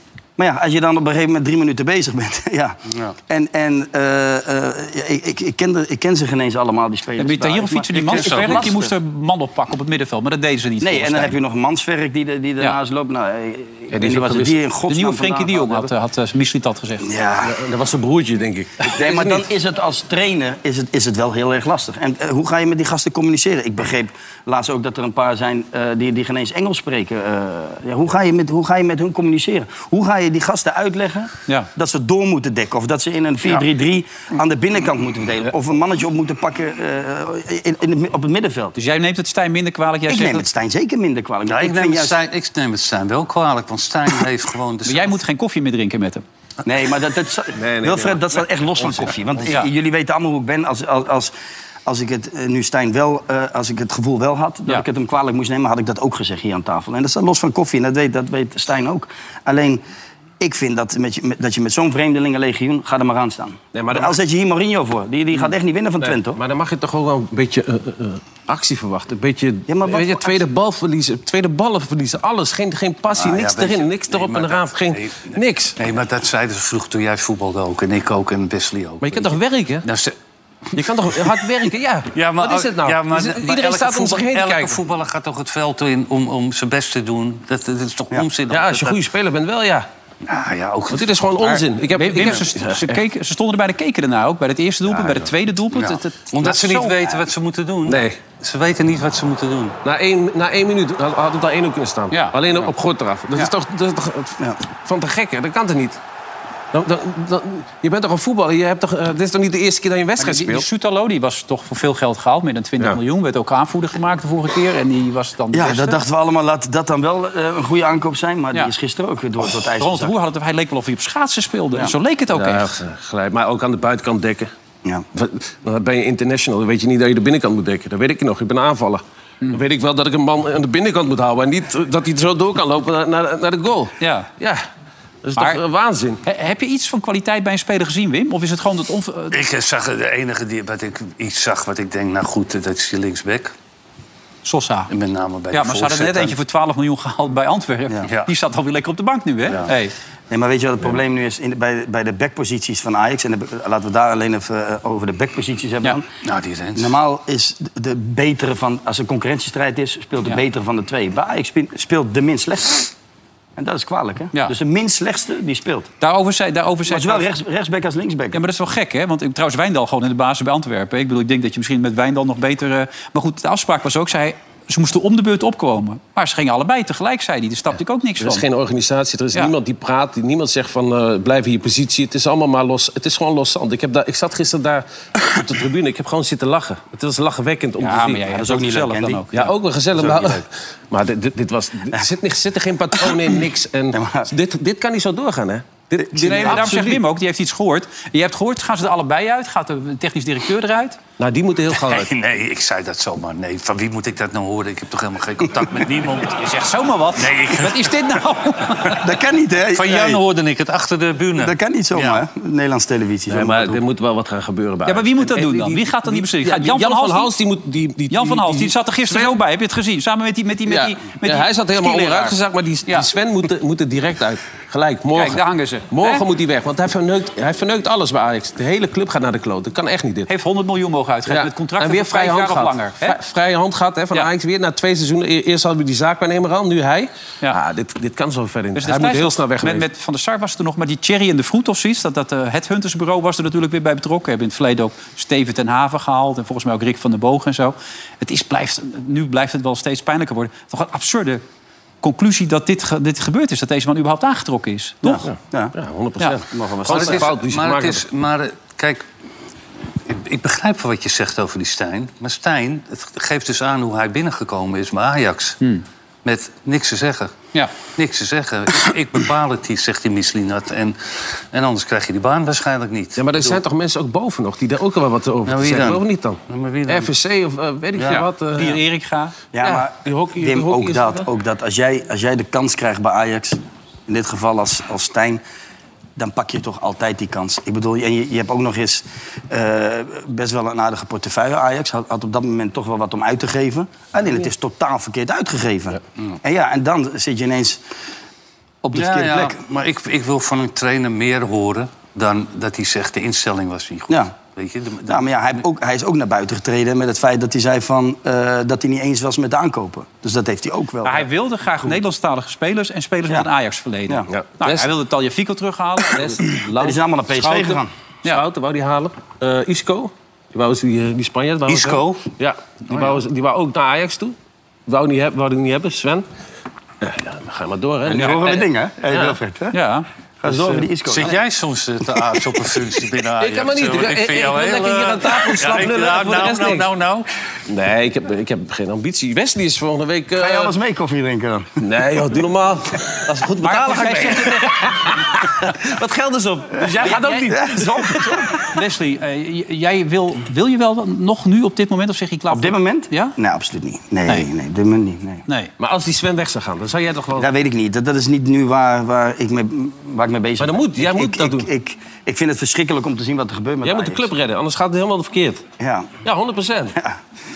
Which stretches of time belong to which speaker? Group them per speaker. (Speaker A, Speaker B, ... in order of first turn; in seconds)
Speaker A: 0.4-8.9, 10.8-15.9, 17.0-17.6, 18.8-38.8, 40.1-42.2, 46.6-51.3, 51.9-59.8, 60.4-66.4, 69.7-70.4, 115.5-120.1, 150.3-156.1, 156.8-162.9, 163.6-165.9, 166.9-168.4, 188.3-189.2, 190.0-190.4, 193.9-194.3, 196.3-196.6, 209.0-210.2, 211.4-213.8, 255.0-255.8, 256.5-257.3, 279.5-285.4, 286.1-297.8, 298.8-299.6, 305.1-311.3, 316.7-317.9, 328.0-329.8, 330.4-331.3, 340.4-341.7, 347.5-348.5, 352.5-355.4, 357.4-364.3, 365.8-366.1
Speaker B: 7.2-11.4, 14.9-17.1, 38.8-40.4, 44.9-46.2, 91.4-97.0, 102.1-102.4, 110.2-116.0, 119.8-122.7, 134.0-134.3, 136.2-139.4, 144.4-144.9, 145.5-149.9, 166.0-167.2, 168.3-178.4, 187.8-189.5, 196.2-201.0, 206.4-209.0, 214.9-217.3, 218.1-223.1, 225.1-226.2, 230.3-233.2, 238.8-251.4, 252.0-255.2, 278.1-279.4, 311.0-316.4, 329.7-330.1, 343.6-344.7, 347.0-347.5, 348.6-353.4, 355.5-355.7
Speaker C: 7.9-8.7, 41.5-45.2, 73.1-80.2, 80.7-81.5, 82.1-89.0, 90.2-91.2, 95.7-99.8, 139.3-143.5, 144.9-146.4, 156.2-156.9, 201.8-206.5, 207.2-208.0, 209.7-212.2, 256.9-259.0, 260.1-265.6, 266.2-267.4, 268.0-273.6, 275.4-277.1, 278.0-278.2, 298.9-305.5, 321.7-322.3, 322.9-323.2, 331.1-337.3
Speaker D: 13.9-14.6, 17.4-19.4, 47.6-49.2, 63.7-64.2, 66.0-75.8, 79.0-79.9, 80.7-84.8, 88.5-89.9, 90.9-93.0, 94.9-95.3, 97.9-98.2, 99.8-106.0, 106.7-110.7, 122.3-124.5, 125.1-134.6, 135.2-136.2, 178.2-188.3, 189.3-197.0, 201.2-202.1, 213.3-219.4, 220.7-230.3, 231.3-239.9, 255.2-258.0, 273.2-278.8, 279.6-281.3, 314.3-314.9, 316.1-324.4, 324.9-326.2, 327.0-328.7, 330.5-330.8, 333.4-336.9, 337.7-340.7, 341.8-348.5, 355.8-357.5, 360.6-361.7, 363.8-365.6, 366.2-367.0